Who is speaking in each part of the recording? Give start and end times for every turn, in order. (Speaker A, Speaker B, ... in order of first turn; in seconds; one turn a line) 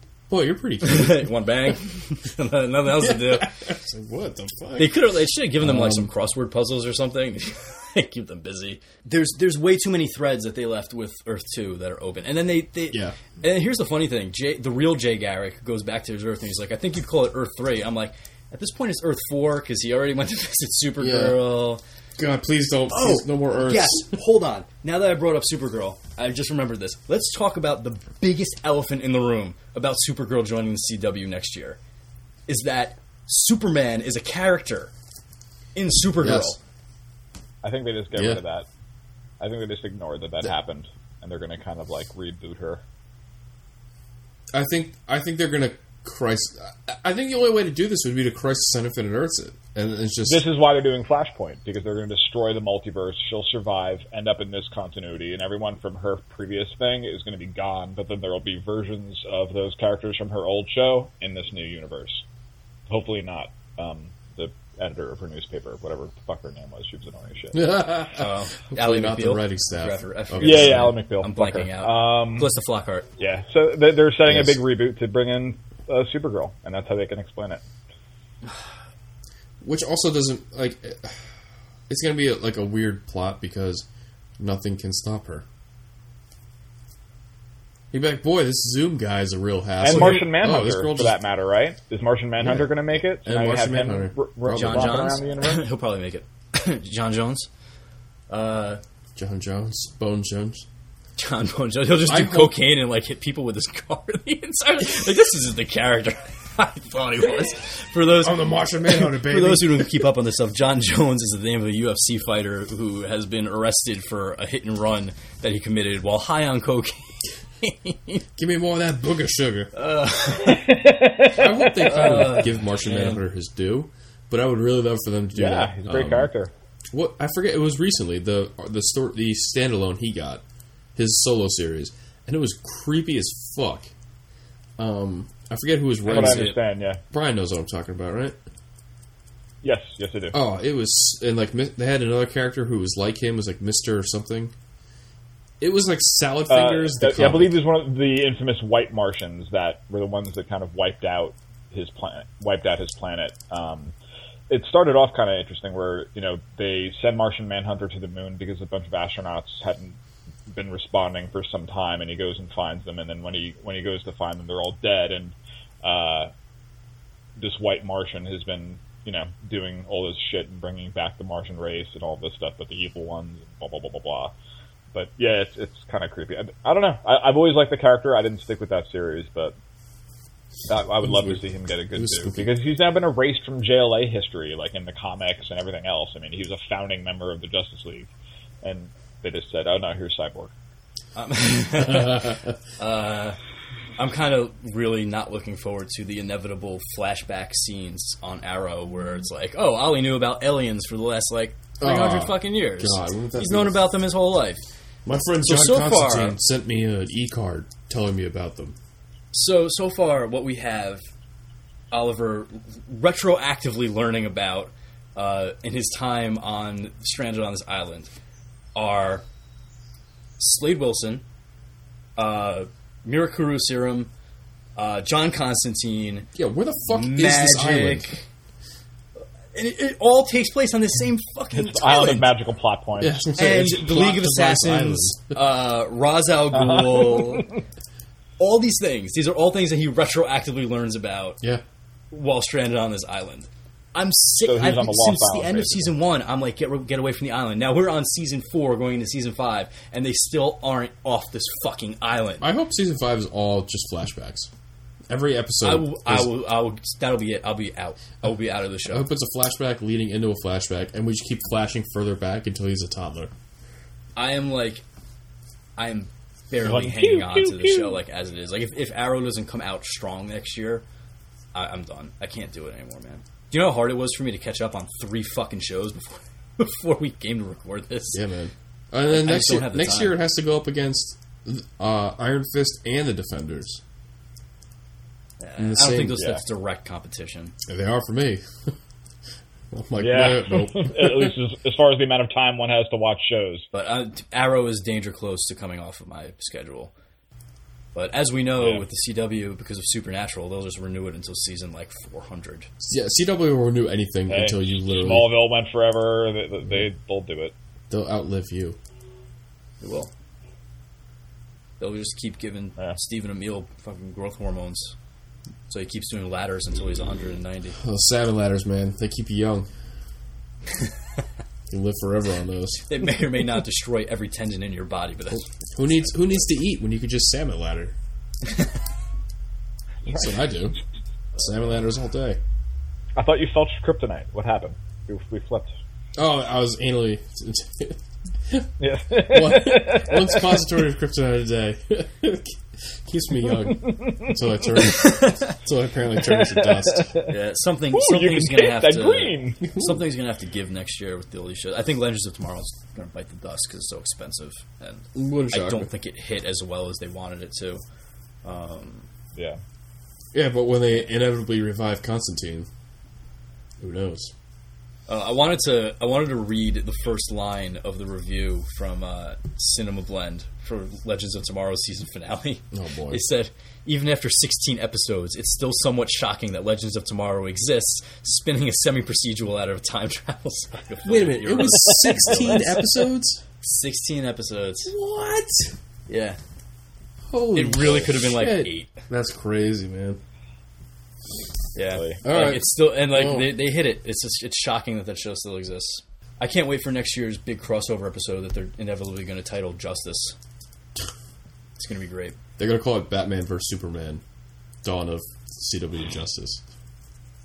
Speaker A: 0.3-1.3
Speaker B: 0.8-3.5
Speaker A: 2.9-5.0
Speaker B: 4.8-21.8
Speaker A: 5.6-6.1
Speaker A: 12.9-13.2
Speaker A: 21.0-21.4
Speaker A: 22.2-24.1
Speaker B: 22.9-31.8
Speaker B: 32.5-34.9
Speaker B: 35.7-36.6
Speaker A: 36.2-36.5
Speaker C: 37.6-38.7
Speaker A: 38.1-38.4
Speaker C: 39.4-42.8
Speaker A: 44.5-50.4
Speaker C: 50.2-62.2
Speaker C: 62.9-67.7
Speaker A: 67.5-71.0
Speaker B: 68.1-73.1
Speaker C: 70.4-72.5
Speaker C: 73.2-77.6
Speaker A: 74.2-74.6
Speaker A: 79.6-81.2
Speaker A: 81.9-83.8
Speaker A: 84.4-85.5
Speaker A: 87.9-91.2
Speaker C: 89.8-95.7
Speaker B: 89.9-90.2
Speaker A: 92.4-95.1
Speaker B: 94.5-97.5
Speaker B: 98.3-98.8
Speaker A: 99.2-100.7
Speaker B: 101.2-118.2
Speaker A: 102.0-102.6
Speaker A: 108.1-110.0
Speaker A: 118.3-119.7
Speaker B: 119.7-120.8
Speaker C: 120.4-121.9
Speaker A: 121.3-126.3
Speaker B: 121.8-123.2
Speaker C: 125.3-126.5
Speaker A: 126.9-130.4
Speaker A: 130.9-133.9
Speaker A: 134.8-136.5
Speaker B: 136.0-136.6
Speaker C: 136.1-137.0
Speaker A: 137.1-138.4
Speaker C: 139.6-140.3
Speaker A: 140.3-144.5
Speaker A: 145.6-147.6
Speaker C: 146.5-153.9
Speaker C: 154.5-166.3
Speaker C: 167.4-174.3
Speaker C: 174.9-179.6
Speaker C: 180.7-188.1
Speaker A: 181.0-182.5
Speaker C: 188.6-190.5
Speaker B: 191.2-193.4
Speaker A: 191.9-192.3
Speaker B: 194.0-204.6
Speaker A: 201.8-203.9
Speaker A: 205.1-208.8
Speaker B: 205.4-206.4
Speaker B: 209.3-211.0
Speaker B: 211.9-218.1
Speaker B: 218.7-219.2
Speaker B: 220.4-221.2
Speaker B: 222.2-224.1
Speaker B: 224.8-226.3
Speaker A: 226.3-228.1
Speaker B: 226.9-228.2
Speaker B: 229.5-232.3
Speaker C: 231.5-233.2
Speaker A: 233.0-235.4
Speaker B: 233.3-237.5
Speaker C: 236.5-237.4
Speaker B: 238.4-241.4
Speaker B: 242.1-252.5
Speaker C: 244.4-245.9
Speaker A: 252.4-254.5
Speaker A: 255.1-256.4
Speaker B: 255.6-259.1
Speaker A: 258.9-263.3
Speaker B: 264.1-264.8
Speaker B: 265.8-270.8
Speaker C: 266.6-268.0
Speaker B: 271.5-278.2
Speaker A: 278.1-283.8
Speaker B: 279.1-280.2
Speaker B: 285.4-287.5
Speaker A: 285.6-286.2
Speaker A: 287.6-288.7
Speaker A: 289.7-291.3
Speaker C: 290.0-293.7
Speaker B: 293.7-296.9
Speaker B: 297.9-302.7
Speaker C: 298.6-298.8
Speaker A: 302.8-305.3
Speaker C: 304.3-307.5
Speaker A: 307.9-308.8
Speaker B: 309.8-310.1
Speaker B: 311.8-314.9
Speaker B: 315.7-317.8
Speaker A: 317.8-319.7
Speaker A: 321.7-322.9
Speaker B: 322.9-325.5
Speaker A: 325.7-327.9
Speaker C: 330.1-330.5
Speaker A: 330.1-330.8
Speaker A: 331.4-332.4
Speaker C: 333.1-335.7
Speaker A: 336.1-338.7
Speaker C: 338.8-340.6
Speaker A: 339.3-347.1
Speaker C: 343.8-344.3
Speaker B: 344.9-345.5
Speaker C: 346.2-347.3
Speaker B: 347.3-357.8
Speaker C: 347.9-349.7
Speaker A: 349.7-350.0
Speaker A: 355.1-355.9
Speaker B: 358.4-359.1
Speaker C: 359.3-359.6
Speaker A: 360.3-362.7
Speaker A: 363.8-364.3
Speaker B: 365.1-382.8
Speaker A: 372.7-373.2
Speaker A: 381.0-383.4
Speaker B: 383.6-384.9
Speaker A: 384.9-385.7
Speaker B: 386.1-386.4
Speaker A: 387.3-390.2
Speaker B: 387.5-389.0
Speaker B: 391.7-400.4
Speaker C: 391.9-392.2
Speaker A: 392.2-393.6
Speaker B: 401.8-402.4
Speaker A: 402.6-404.2
Speaker A: 404.8-406.6